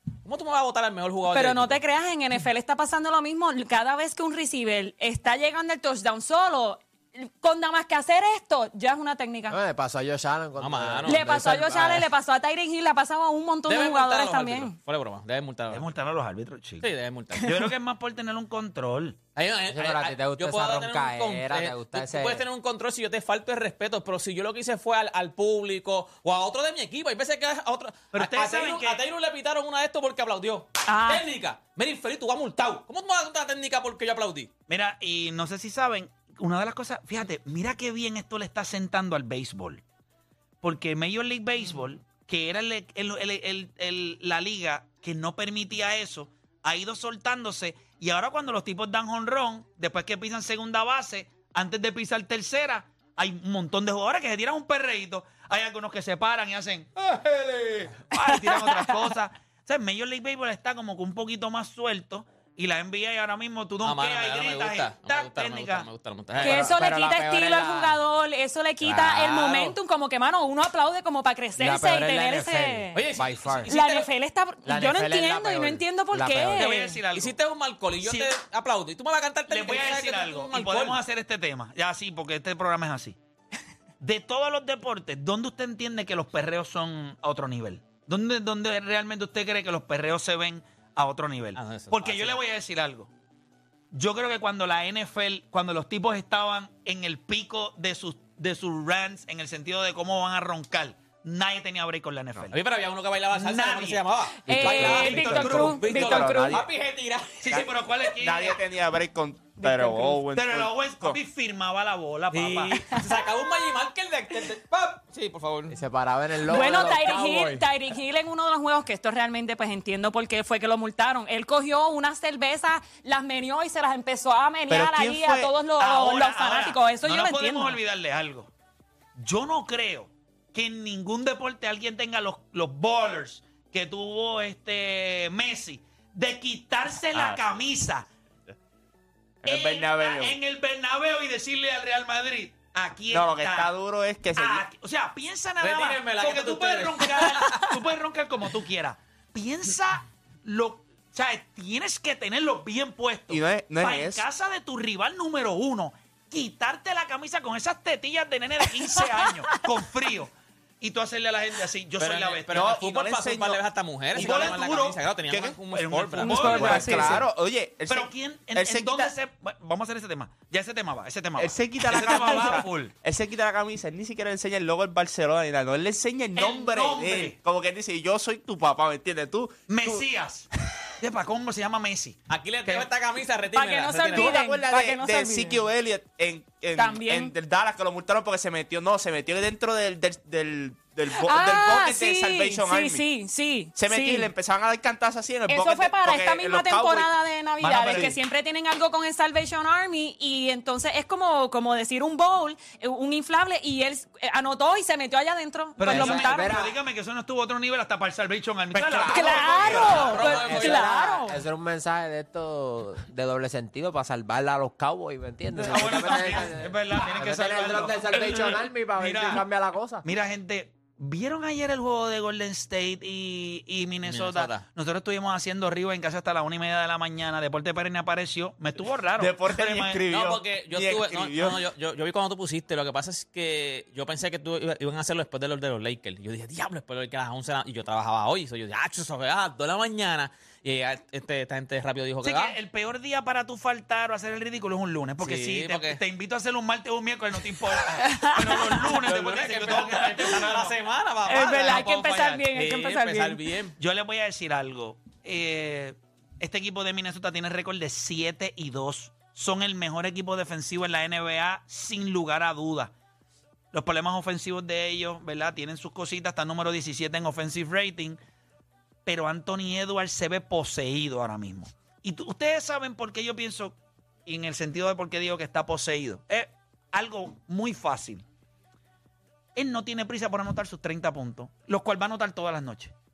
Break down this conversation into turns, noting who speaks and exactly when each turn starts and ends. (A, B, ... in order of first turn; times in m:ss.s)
0:00.2-0:01.8 A
0:01.3-0:09.6 B
0:09.5-0:12.0 C
0:10.6-0:11.9 A
0:11.0-0:14.8 B
0:13.7-0:15.9 A
0:15.7-0:19.2 D
0:16.8-0:17.5 A
0:19.4-0:34.5 A
0:19.7-0:22.4 C
0:28.1-0:29.0 D
0:30.8-0:31.2 B
0:34.7-0:39.8 D
0:40.6-0:57.2 D
0:58.1-1:05.9 D
0:58.1-0:59.0 B
1:03.8-1:06.8 A
1:06.3-1:08.0 C
1:06.4-1:13.0 B
1:08.8-1:09.7 C
1:11.6-1:13.7 C
1:12.9-1:14.1 A
1:13.7-1:17.0 B
1:14.6-1:16.7 C
1:16.6-1:17.4 D
1:17.1-1:21.0 A
1:18.0-1:18.4 D
1:19.5-1:23.2 D
1:24.0-1:33.1 D
1:31.5-1:32.4 A
1:33.9-1:42.5 D
1:42.5-1:47.7 A
1:43.3-1:45.9 D
1:44.4-1:46.6 B
1:44.5-1:45.0 C
1:45.4-1:46.6 E
1:46.2-1:46.6 C
1:47.4-1:48.6 D
1:47.5-1:51.2 E
1:50.2-1:52.8 D
1:52.3-1:55.8 A
1:52.7-1:53.2 B
1:55.7-1:57.6 C
1:56.5-2:07.8 B
2:04.7-2:05.5 E
2:05.8-2:08.5 D
2:09.2-2:18.1 D
2:17.1-2:17.6 E
2:19.4-2:20.4 E
2:19.4-2:23.7 D
2:23.1-2:24.6 E
2:24.4-2:42.8 D
2:25.6-2:27.6 A
2:33.3-2:34.2 E
2:39.2-2:39.6 B
2:42.0-2:47.1 A
2:42.5-2:43.6 E
2:44.1-2:45.0 D
2:45.3-2:45.6 E
2:45.7-2:47.2 D
2:46.1-2:49.1 E
2:46.2-2:47.2 B
2:46.8-2:47.2 C
2:47.9-2:52.9 D
2:51.4-3:00.0 E
2:56.4-2:57.4 D
2:59.7-3:02.9 D
3:02.3-3:04.4 A
3:03.5-3:05.6 B
3:04.1-3:13.0 E
3:06.7-3:07.3 B
3:11.1-3:14.3 B
3:13.7-3:17.1 E
3:15.5-3:26.6 B
3:17.6-3:18.1 D
3:17.9-3:18.1 E
3:25.8-3:30.2 D
3:25.8-3:26.7 C
3:28.7-3:40.0 C
3:29.1-3:31.4 B
3:29.6-3:30.1 E
3:29.7-3:30.9 A
3:35.6-3:39.4 D
3:40.0-3:50.0 D
3:44.0-3:44.6 A
3:49.2-3:51.6 E
3:50.1-4:02.6 A
4:02.2-4:10.8 D
4:05.2-4:06.0 A
4:08.0-4:08.8 B
4:08.9-4:11.8 A
4:11.3-4:13.4 B
4:11.3-4:12.5 D
4:12.5-4:13.8 A
4:13.8-4:22.9 D
4:23.7-4:28.2 D
4:29.0-4:38.2 D
4:39.6-4:42.9 D